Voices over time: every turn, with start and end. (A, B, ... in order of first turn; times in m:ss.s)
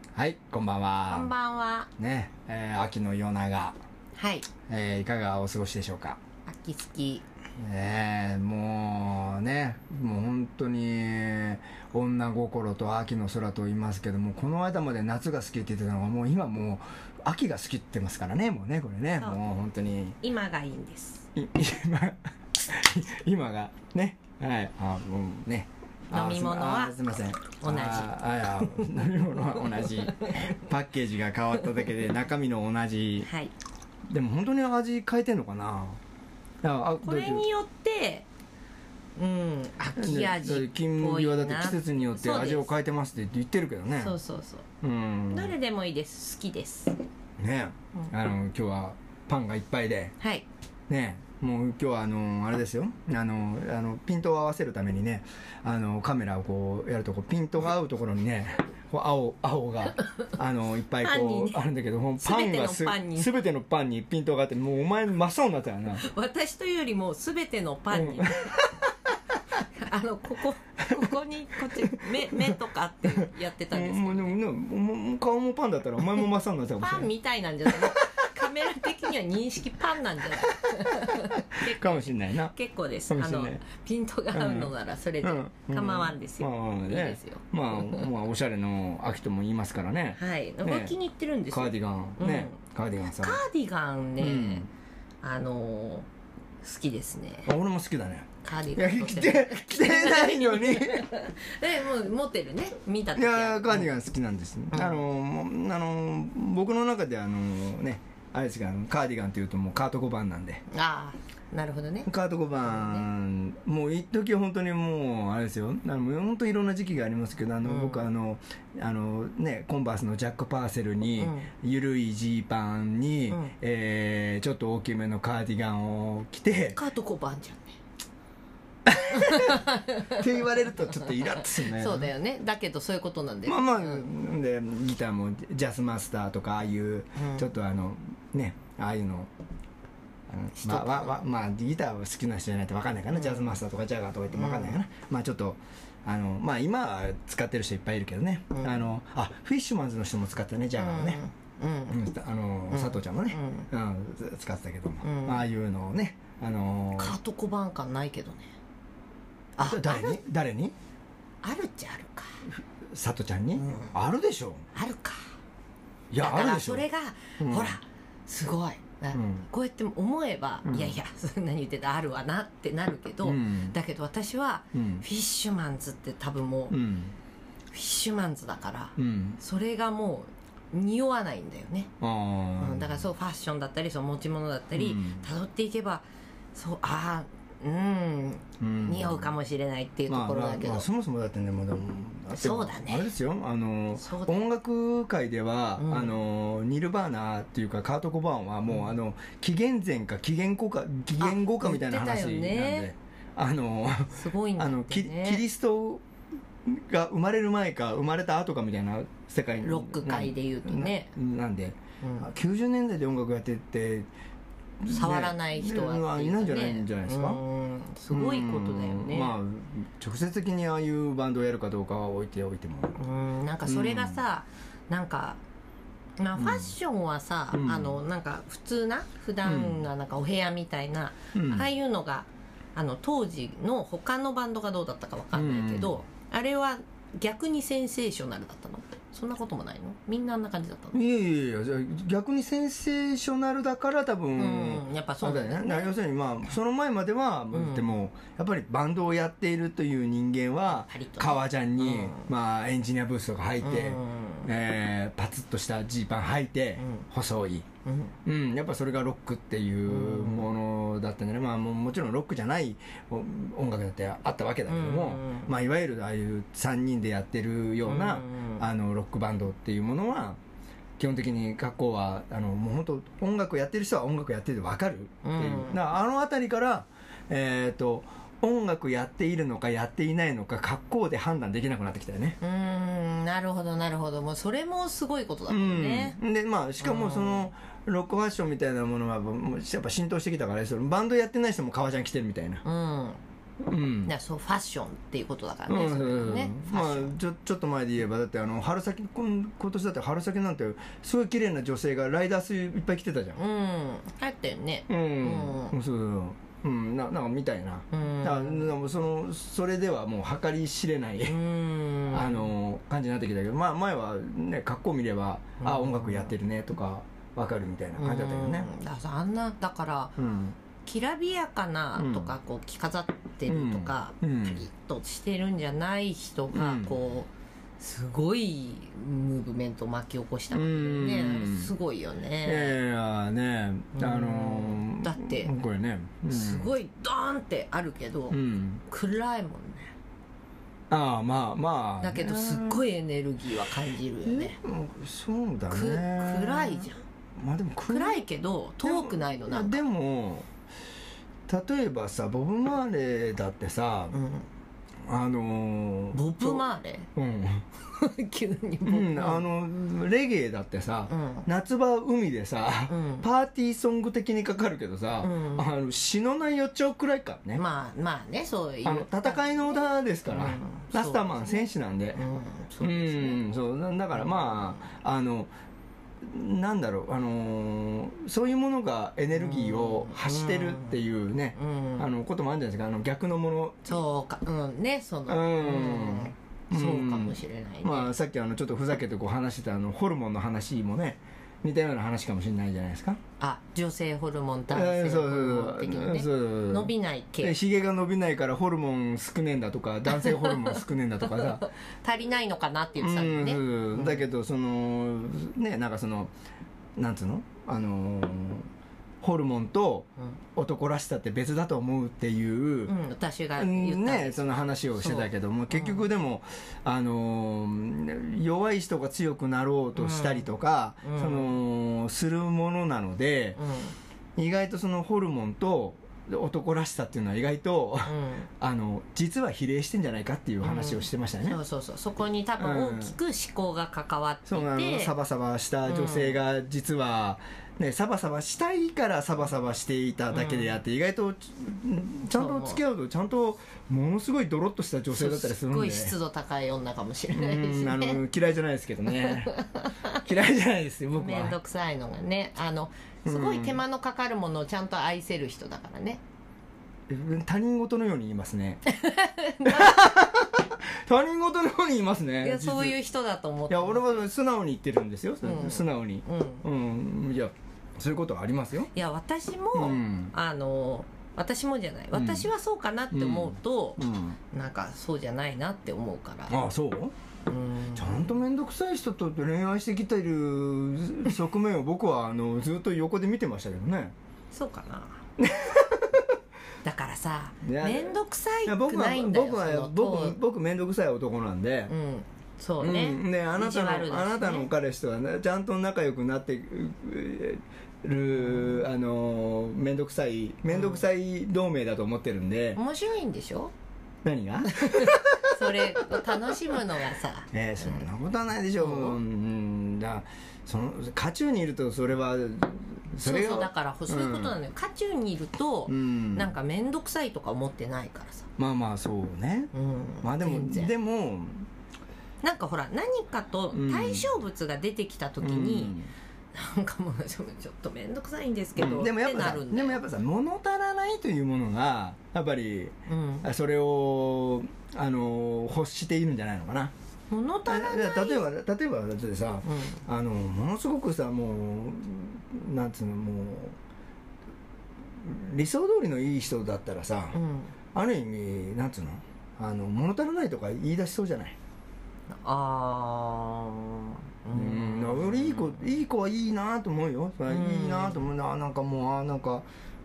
0:00.2-0:01.3 A
0:01.1-0:01.9 B
0:02.0-0:03.8 A
0:04.2-0:04.5 B
0:04.7-0:06.2 A
0:06.5-0:07.2 B
0:07.6-0:20.2 A
0:20.2-0:21.3 B
0:21.4-0:33.3 A
0:26.1-0:27.0 B
0:27.6-0:30.5 B
0:33.2-0:33.5 B
0:34.1-0:36.0 A
0:36.6-0:37.4 A
0:37.0-0:38.3 B
0:39.2-0:42.7 B
0:40.0-0:44.2 A
0:44.0-0:44.7 B
0:44.8-0:45.5 A
0:45.3-0:47.0 B
0:47.4-0:50.2 A
0:50.2-0:50.5 B
0:50.9-1:06.1 A
1:01.0-1:01.6 B
1:02.2-1:03.4 B
1:05.9-1:08.6 B
1:07.9-1:08.8 A
1:09.6-1:14.3 B
1:11.7-1:12.5 A
1:13.1-1:17.1 A
1:16.8-1:28.1 B
1:17.7-1:18.1 A
1:21.0-1:22.5 A
1:23.1-1:23.6 A
1:24.3-1:31.0 A
1:30.2-1:32.6 B
1:31.5-1:33.4 A
1:33.1-1:34.7 B
1:34.2-1:34.7 A
1:35.2-1:36.1 B
1:36.6-1:37.5 B
1:37.4-1:41.1 A
1:38.4-1:43.9 B
1:43.2-1:50.6 A
1:44.7-1:45.0 B
1:50.7-1:52.1 B
1:52.1-2:06.8 A
1:52.6-1:53.1 B
1:57.6-1:58.1 B
2:01.2-2:01.5 B
2:06.7-2:07.8 B
2:08.9-2:12.1 A
2:09.1-2:10.4 B
2:11.0-2:14.0 B
2:13.5-2:19.3 A
2:17.2-2:17.5 B
2:20.3-2:31.2 A
2:20.6-2:21.2 B
2:23.1-2:23.6 B
2:24.3-2:24.8 B
2:28.5-2:28.9 B
2:30.8-2:32.0 B
2:31.9-2:37.2 A
2:32.7-2:33.7 B
2:35.0-2:35.5 B
2:37.0-2:38.5 B
2:39.6-2:40.2 B
2:39.6-2:40.7 A
2:41.4-2:42.4 B
2:42.5-2:44.6 A
2:43.6-2:43.9 B
2:44.7-2:45.2 B
2:46.1-2:46.9 A
2:46.2-2:56.8 B
2:47.4-2:47.8 A
2:49.1-2:49.5 A
2:50.6-2:51.0 A
2:53.2-2:53.8 A
2:54.7-2:55.0 A
2:56.7-2:57.1 A
2:57.7-3:01.9 B
2:59.0-2:59.4 A
3:02.0-3:03.1 A
3:02.6-3:10.9 B
3:04.7-3:05.3 A
3:08.6-3:09.3 A
3:10.1-3:26.0 A
3:12.3-3:13.1 B
3:14.0-3:14.4 B
3:15.8-3:16.2 B
3:21.2-3:22.9 B
3:24.1-3:25.4 B
3:26.6-3:34.1 A
3:29.6-3:31.1 B
3:32.0-3:32.3 B
3:34.8-3:37.4 A
3:34.9-3:39.3 B
3:38.1-3:43.0 A
3:43.0-3:45.4 B
3:43.6-3:44.2 A
3:46.2-4:01.0 B
3:46.4-3:46.7 A
3:47.5-3:48.0 A
3:49.4-3:49.9 A
3:51.3-3:51.7 A
3:55.3-3:56.0 A
4:00.9-4:17.7 A
4:04.4-4:05.9 B
4:07.5-4:08.0 B
4:10.7-4:12.3 B
4:13.6-4:14.5 B
4:16.8-4:17.1 B
4:17.8-4:18.1 B
4:18.2-4:30.4 A
4:19.9-4:20.5 B
4:24.7-4:25.5 B
4:27.8-4:28.6 B
4:31.0-4:42.4 A
4:35.2-4:35.8 B
4:42.4-4:46.2 B
4:45.5-4:52.6 A
4:46.8-4:47.5 B
4:52.6-4:53.2 B
4:53.6-4:54.1 A
4:54.0-4:57.2 B
4:55.7-5:03.4 A
5:03.4-5:05.8 B
5:04.9-5:11.4 A
5:07.9-5:08.7 B
5:11.3-5:12.5 B
5:12.1-5:18.7 A
5:15.6-5:16.3 B
5:18.0-5:20.2 B
5:20.2-5:20.6 A
5:20.8-5:32.8 B
5:22.0-5:22.4 A
5:23.5-5:24.7 A
5:26.5-5:27.0 A
5:30.5-5:31.7 A
5:32.4-5:36.7 A
5:34.0-5:35.5 B
5:36.3-5:39.9 B
5:38.3-5:38.8 A
5:40.9-5:42.8 A
5:42.0-5:44.6 B
5:44.2-5:48.2 A
5:45.7-5:47.0 B
5:47.9-5:49.8 B
5:48.8-5:50.5 A
5:51.5-5:54.2 A
5:54.1-5:54.5 B
5:55.0-5:57.6 A
5:56.1-5:57.1 B
5:57.9-5:59.4 B
5:58.9-6:07.6 A
6:01.1-6:01.5 B
6:02.9-6:03.3 B
6:05.2-6:05.7 B
6:07.6-6:13.4 B
6:08.8-6:12.2 A
6:12.8-6:15.5 A
6:14.1-6:14.8 B
6:16.2-6:24.0 A
6:19.3-6:21.0 B
6:21.6-6:22.1 B
6:23.9-6:28.1 B
6:25.3-6:33.2 A
6:33.4-6:37.6 B
6:34.7-6:41.6 A
6:40.1-6:44.2 B
6:43.0-6:46.3 A
6:47.0-6:48.7 A
6:49.2-6:52.9 A
6:52.9-6:56.0 B
6:53.6-7:03.6 A
7:00.0-7:01.5 B
7:03.6-7:04.0 B
7:04.4-7:11.6 A
7:08.0-7:08.5 B
7:10.6-7:15.1 B
7:12.6-7:13.2 A
7:14.5-7:26.1 A
7:15.8-7:16.4 B
7:20.3-7:20.7 B
7:22.3-7:22.8 B
7:25.1-7:28.2 B
7:27.3-7:29.6 A
7:29.1-7:30.2 B
7:30.1-7:31.6 A
7:31.2-7:36.2 B
7:33.3-7:33.8 A
7:37.1-7:38.8 A
7:38.9-7:40.0 B
7:39.6-7:43.0 A
7:42.4-7:44.2 B
7:43.7-7:48.9 A
7:45.4-7:46.6 B
7:48.9-7:54.0 B
7:49.8-7:50.3 A
7:52.1-7:52.5 A
7:53.1-7:54.4 A
7:54.5-7:56.6 B
7:56.5-7:57.1 A
7:57.4-7:58.4 B
7:58.0-8:04.1 A
8:04.5-8:05.2 B
8:05.4-8:06.3 A
8:06.8-8:10.4 B
8:07.6-8:11.9 A
8:11.9-8:14.7 B
8:12.8-8:22.8 A
8:18.6-8:18.8 B
8:20.7-8:21.1 B
8:22.8-8:23.7 B
8:24.2-8:26.5 A
8:24.8-8:28.1 B
8:27.5-8:34.6 A
8:28.8-8:29.2 B
8:33.2-8:38.5 B
8:35.9-8:36.5 A
8:38.6-8:39.7 A
8:39.7-8:40.9 B
8:40.2-8:41.7 A
8:42.4-8:46.0 B
8:43.7-8:44.3 A
8:45.4-8:46.1 A
8:46.5-8:50.0 B
8:48.8-8:56.9 A
8:53.1-8:53.5 B
8:57.3-8:58.5 B
8:57.7-9:03.8 A
8:59.6-9:00.0 B
9:05.2-9:07.4 A
9:07.3-9:07.8 B
9:07.9-9:11.6 A
9:12.3-9:15.9 B
9:14.5-9:19.7 A
9:17.5-9:18.3 B